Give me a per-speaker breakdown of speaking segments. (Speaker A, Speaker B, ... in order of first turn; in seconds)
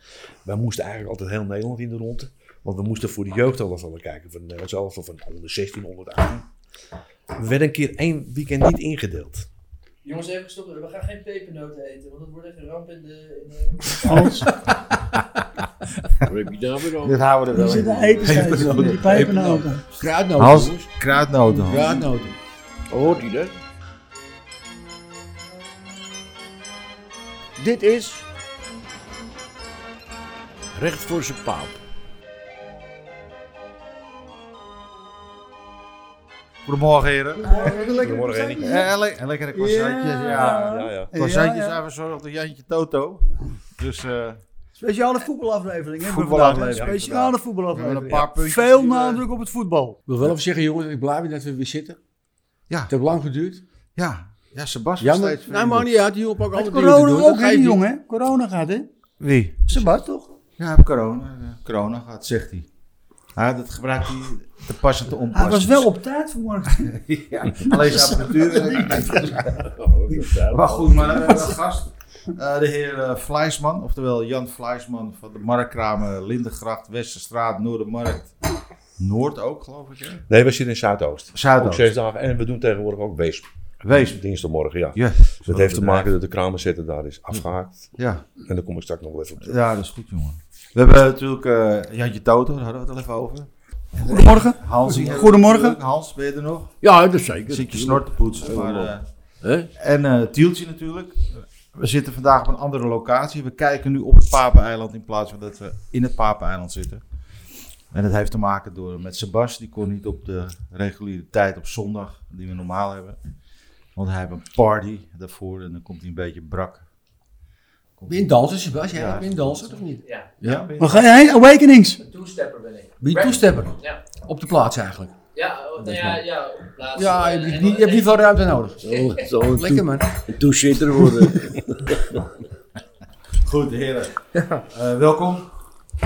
Speaker A: 0.5-6.5, 7.3-9.5, 37.9-38.8, 40.6-41.1, 80.3-89.6
Speaker B: 10.0-14.4, 120.0-120.4, 122.0-124.0, 125.3-128.2
Speaker C: 14.1-14.4, 17.5-19.8, 37.4-38.9, 39.5-41.8, 44.8-50.0, 56.5-58.9, 59.7-60.3, 65.3-69.3, 70.5-71.6, 94.0-95.8, 120.8-122.0
Speaker D: 14.3-14.5, 17.0-19.7, 20.4-22.1, 36.7-44.4, 46.0-49.2, 54.0-55.9, 59.2-59.9, 60.6-62.7, 63.4-65.9, 66.8-69.7, 70.5-78.3, 79.0-80.2, 81.3-81.9, 83.8-84.2, 85.0-86.1, 88.0-88.3, 89.4-96.7, 97.5-99.1, 99.8-107.0, 107.9-113.2, 114.0-116.8, 118.0-118.4, 118.9-119.6, 120.4-121.2, 133.4-135.5
Speaker E: 16.3-18.4, 22.9-23.6, 27.6-28.2, 30.7-31.8, 69.5-71.4, 96.8-99.7, 128.8-132.2
Speaker F: 18.2-19.3, 20.0-20.9, 21.6-22.4, 50.1-52.0, 52.9-53.6, 55.0-57.8, 118.1-120.7, 123.0-125.2, 125.8-126.2, 126.9-130.2, 131.1-131.5, 134.3-134.6